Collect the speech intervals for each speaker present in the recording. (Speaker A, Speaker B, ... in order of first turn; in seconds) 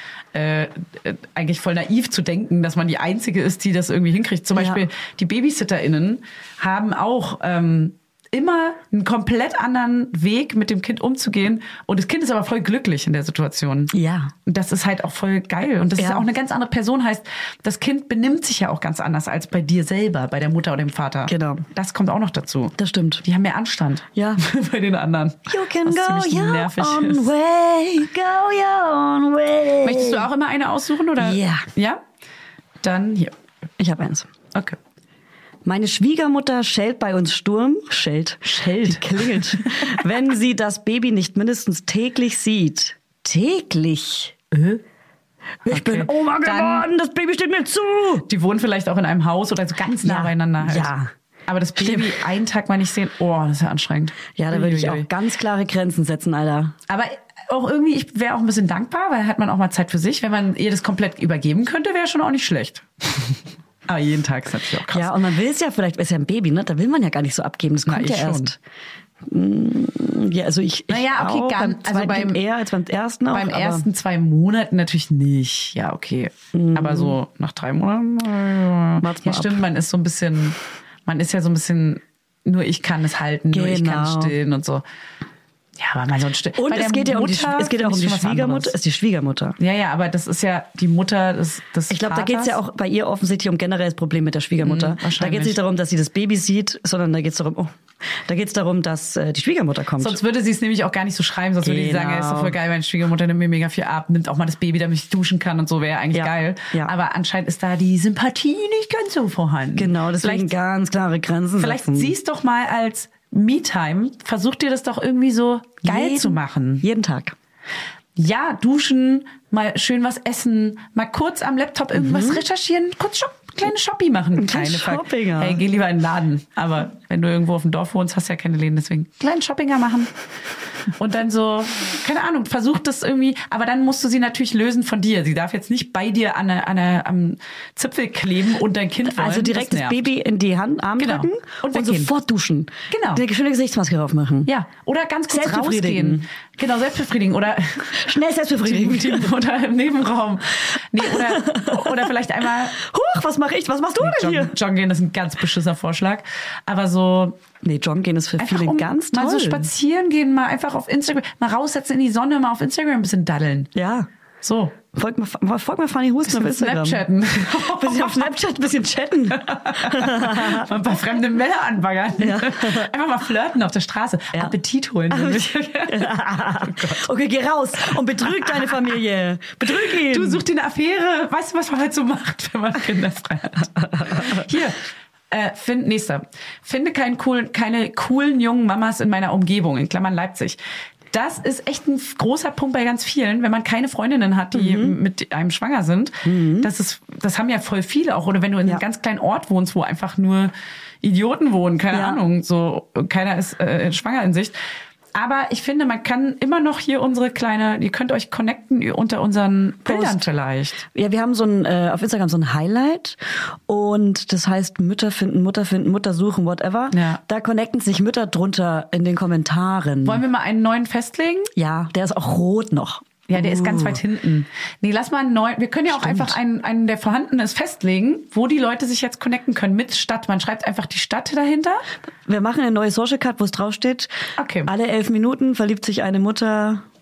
Speaker A: 0.3-13.9, 14.4-27.3, 29.8-32.0, 32.8-33.3, 38.4-40.0, 44.5-44.8, 45.7-46.9, 48.3-50.9, 51.5-55.1, 56.9-65.2, 67.8-68.5, 70.9-72.4, 73.3-84.8, 85.8-88.8, 89.6-92.6, 94.6-95.6, 100.0-110.5, 111.6-116.8, 118.2-130.1, 131.0-140.0, 141.0-142.1, 142.9-143.2, 144.5-148.0, 148.6-152.8, 154.0-157.4, 158.4-163.7, 164.4-164.8, 166.3-168.3, 169.4-177.1, 177.8-178.6, 179.7-184.8, 185.3-190.6, 191.1-204.6, 205.1-210.8, 216.9-217.2, 220.0-221.5, 223.3-231.8, 234.4-234.7
Speaker B: 4.5-4.8, 13.9-14.3, 16.0-16.2, 21.3-21.6, 22.8-23.2, 24.1-24.4, 25.5-30.2, 31.2-31.6, 33.8-34.3, 35.6-44.4, 45.6-48.2, 50.0-51.1, 51.8-52.2, 54.4-56.7, 64.9-68.6, 69.2-73.8, 76.5-77.1, 79.0-79.6, 83.5-84.3, 86.5-89.5, 91.9-100.2, 101.6-102.6, 106.1-106.9, 109.8-112.1, 115.8-117.3, 121.9-122.4, 124.3-125.6, 139.0-144.5, 145.3-146.2, 147.9-149.3, 151.0-152.1, 152.7-154.5, 157.6-159.7, 163.7-164.1, 164.9-170.7, 172.2-172.9, 175.1-180.4, 183.6-184.5, 194.5-194.9, 196.2-196.7, 201.9-202.2, 209.8-210.2, 210.8-220.2, 221.6-224.0, 225.9-226.4, 232.2-234.1, 234.6-236.8